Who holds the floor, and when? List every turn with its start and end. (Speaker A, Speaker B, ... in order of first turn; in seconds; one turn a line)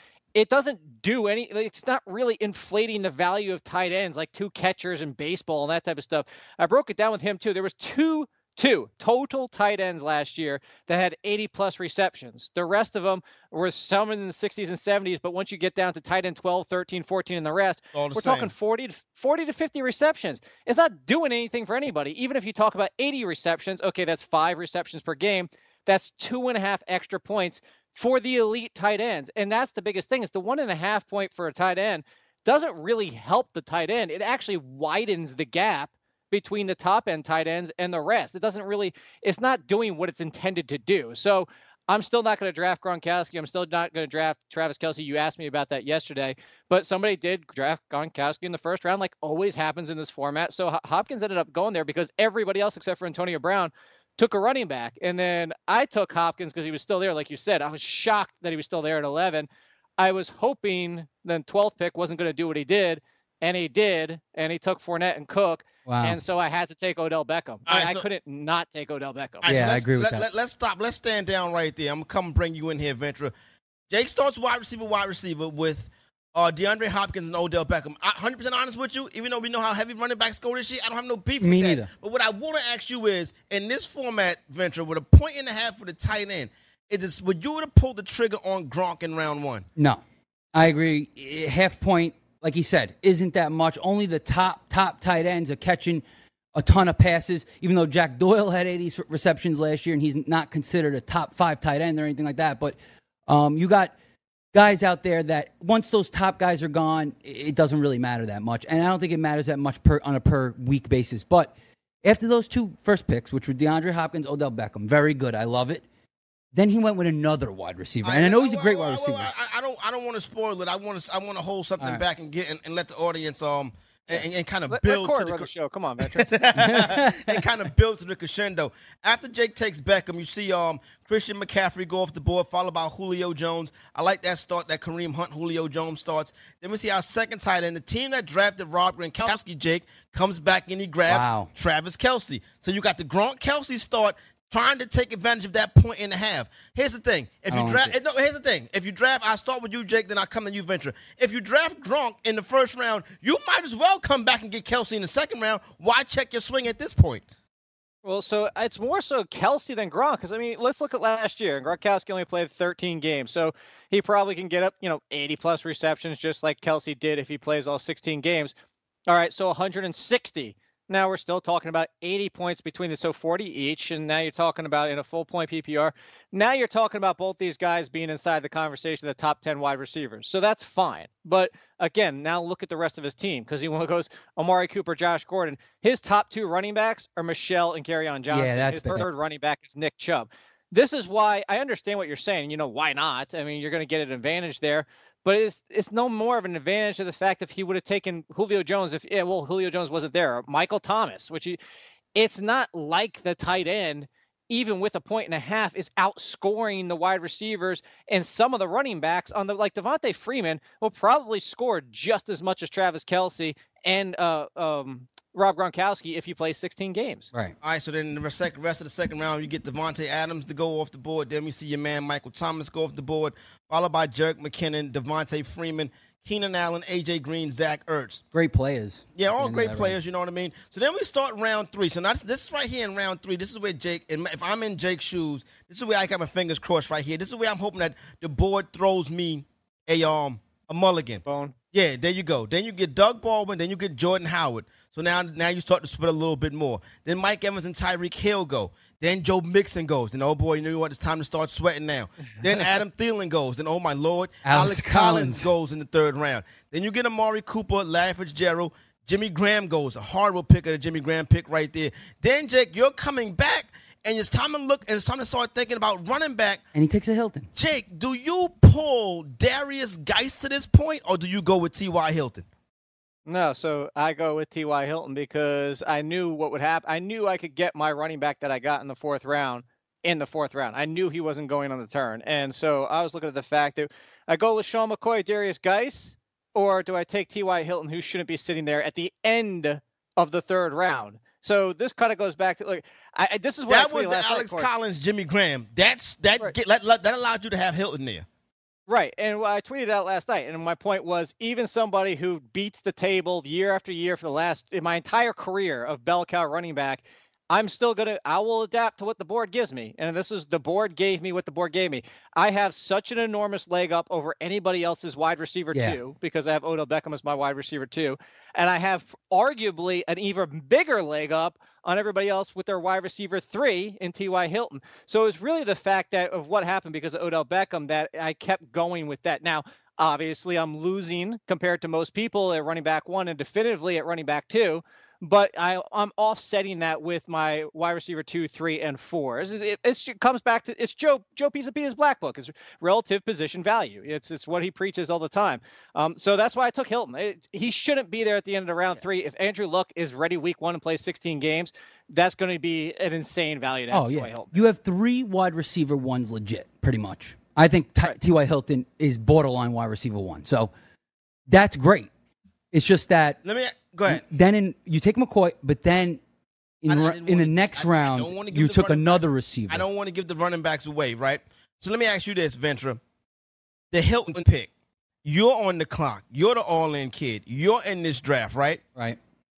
Speaker A: 0.3-59.5
Speaker B: 17.9-18.5
Speaker A: 60.0-69.4
Speaker C: 65.9-66.2
Speaker B: 67.7-68.0
Speaker B: 69.4-73.3
Speaker C: 69.5-70.2
Speaker B: 73.9-89.7
Speaker C: 81.4-81.9
Speaker C: 89.8-90.0
Speaker C: 90.5-96.0
Speaker C: 96.5-102.8
Speaker C: 103.3-103.9
Speaker C: 104.5-111.5
Speaker C: 112.0-115.8
Speaker C: 116.5-119.3
Speaker B: 118.0-125.5
Speaker A: 124.7-126.3
Speaker B: 126.0-157.2
Speaker C: 126.6-127.4
Speaker C: 141.1-141.5
Speaker C: 147.5-147.9
Speaker A: 158.0-168.5
Speaker A: 169.1-201.6
Speaker C: 188.3-189.1
Speaker A: 202.2-217.3
Speaker B: 217.6-228.2
Speaker C: 228.3-230.0
Speaker B: 229.2-241.2
Speaker A: 241.2-241.5
Speaker B: 241.7-266.6
Speaker C: 254.4-255.5
Speaker C: 266.7-267.5
Speaker B: 267.5-272.4
Speaker A: 273.3-294.7
Speaker B: 293.7-298.2
Speaker A: 298.9-354.6
Speaker C: 353.9-360.7
Speaker C: 361.5-362.1
Speaker C: 362.7-363.4
Speaker B: 363.4-364.2
Speaker C: 364.1-366.2
Speaker C: 366.8-369.8
Speaker B: 366.9-373.0
Speaker B: 373.9-374.7
Speaker B: 375.2-378.8